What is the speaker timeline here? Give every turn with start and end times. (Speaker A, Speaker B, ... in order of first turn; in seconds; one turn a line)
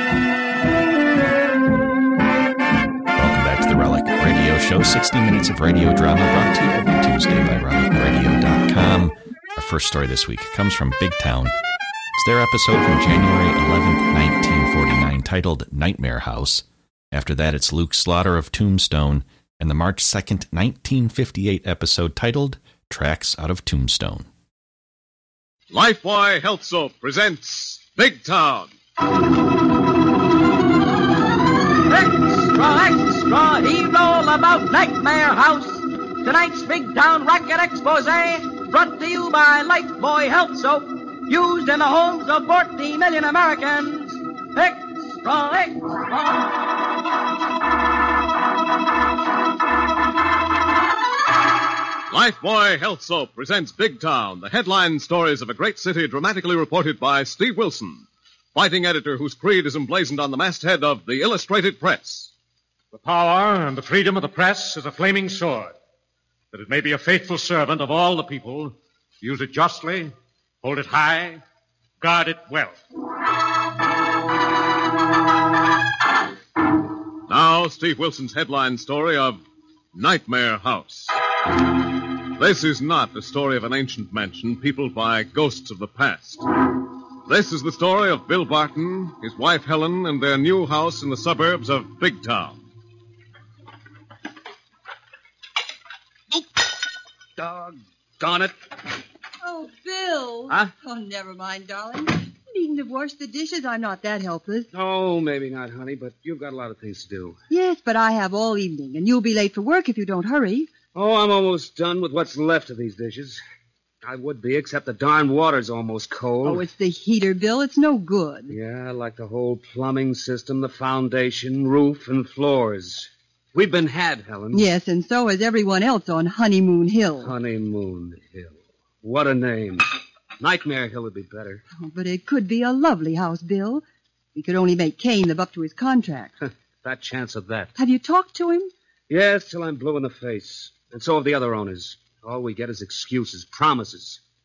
Speaker A: 3.1-11.5
Speaker A: 12.2-24.3
Speaker B: 25.7-28.7
Speaker C: 31.9-46.5
Speaker B: 52.1-62.3
Speaker D: 62.9-65.7
Speaker D: 66.5-71.4
Speaker D: 72.0-72.8
Speaker B: 77.3-79.4
Speaker B: 79.9-81.2
Speaker B: 82.3-86.4
Speaker B: 87.2-92.6
Speaker E: 97.4-98.5
Speaker F: 99.4-104.7
Speaker E: 104.7-107.4
Speaker F: 107.5-110.7
Speaker E: 110.9-113.4
Speaker E: 114.0-116.6
Speaker F: 116.4-118.6
Speaker E: 118.5-124.7
Speaker F: 124.5-127.3
Speaker E: 127.2-131.6
Speaker F: 131.8-136.3
Speaker E: 136.8-137.7
Speaker F: 137.8-138.7
Speaker E: 139.1-144.2